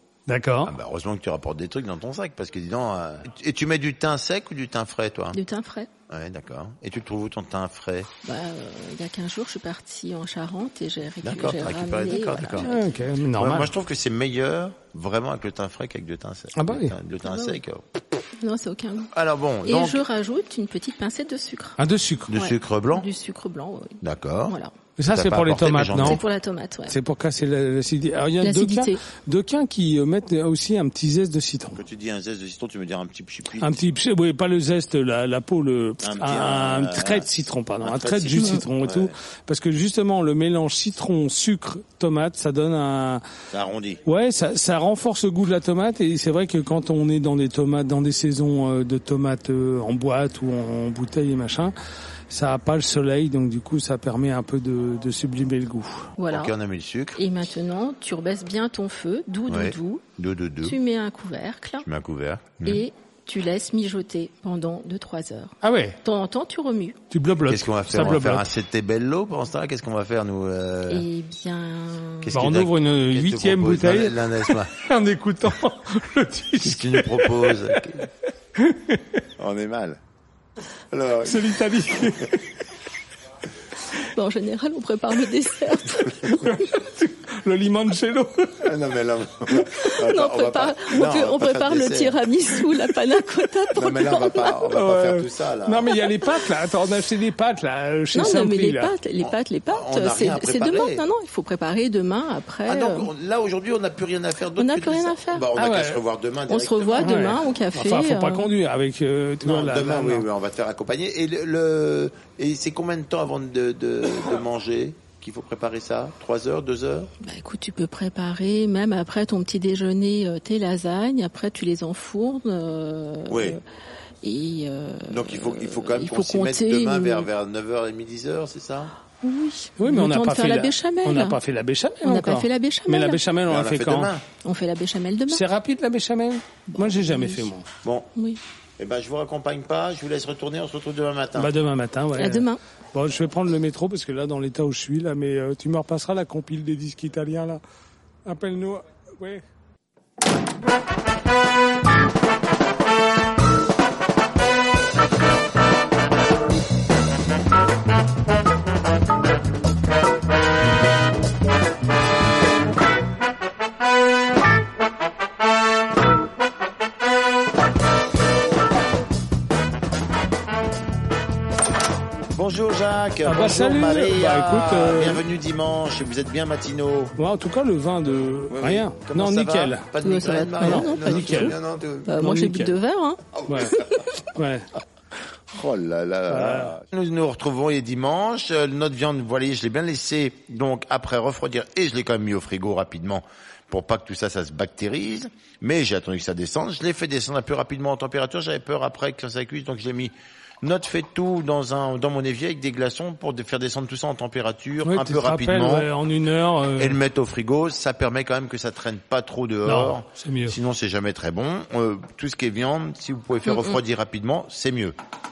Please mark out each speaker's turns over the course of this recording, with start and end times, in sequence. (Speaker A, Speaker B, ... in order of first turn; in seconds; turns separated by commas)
Speaker A: 0.3-0.7, Speaker B: 0.6-5.4, Speaker C: 5.3-5.9, Speaker B: 6.1-8.1, Speaker C: 8.2-12.8, Speaker B: 11.2-12.7, Speaker A: 12.6-13.7, Speaker B: 13.3-17.9, Speaker A: 16.5-16.9, Speaker C: 17.2-17.6, Speaker C: 18.4-19.1, Speaker B: 19.1-20.0, Speaker C: 19.6-21.8, Speaker A: 21.8-22.3, Speaker B: 22.3-23.1, Speaker C: 22.3-24.7, Speaker B: 24.0-24.6, Speaker A: 25.0-26.2, Speaker B: 25.1-26.2, Speaker C: 25.9-26.9, Speaker A: 26.9-31.8, Speaker C: 28.4-29.0, Speaker B: 31.7-33.8, Speaker A: 33.6-43.2, Speaker B: 36.0-37.3, Speaker B: 37.8-39.1, Speaker B: 43.5-44.0, Speaker A: 44.0-51.7, Speaker A: 52.3-56.1, Speaker C: 56.2-56.5, Speaker B: 56.3-57.2, Speaker C: 57.1-60.0, Speaker B: 59.5-60.8, Speaker C: 60.6-61.9, Speaker B: 61.8-62.8, Speaker C: 62.6-67.0, Speaker A: 65.6-66.0, Speaker A: 67.1-68.5, Speaker B: 67.5-71.1, Speaker C: 70.9-72.4, Speaker B: 72.2-74.7, Speaker A: 72.3-78.0, Speaker B: 76.6-78.0, Speaker A: 78.5-79.2, Speaker B: 79.4-80.0, Speaker B: 80.9-82.2, Speaker A: 81.2-82.6, Speaker C: 84.0-86.5, Speaker A: 86.2-88.7, Speaker B: 88.6-92.2, Speaker C: 89.7-94.6, Speaker B: 93.7-96.0, Speaker A: 94.7-98.9, Speaker C: 98.1-103.1, Speaker B: 99.2-101.0, Speaker B: 102.7-107.3, Speaker C: 104.6-105.5, Speaker A: 105.5-106.0, Speaker C: 106.5-108.5, Speaker A: 107.0-110.2, Speaker B: 109.4-117.1, Speaker C: 117.2-123.6, Speaker B: 123.3-123.6, Speaker C: 124.2-127.3, Speaker B: 125.1-128.9, Speaker C: 129.2-131.4, Speaker A: 129.8-134.1, Speaker C: 132.0-133.2, Speaker B: 133.5-134.2, Speaker C: 134.4-135.4, Speaker A: 135.3-137.7, Speaker C: 136.7-137.5, Speaker B: 137.8-138.1, Speaker B: 138.8-141.5, Speaker A: 141.4-147.6, Speaker C: 142.2-142.6, Speaker A: 148.2-149.4, Speaker B: 172.3-177.2, Speaker A: 173.2-175.2, Speaker A: 177.2-179.9, Speaker B: 178.5-182.1, Speaker C: 180.0-183.9, Speaker A: 180.6-181.6, Speaker A: 182.2-182.7, Speaker B: 183.3-184.1, Speaker A: 183.5-184.7, Speaker B: 185.5-205.9, Speaker A: 186.3-186.7, Speaker A: 204.8-207.0, Speaker B: 206.8-215.0, Speaker A: 209.7-210.6, Speaker C: 213.4-213.8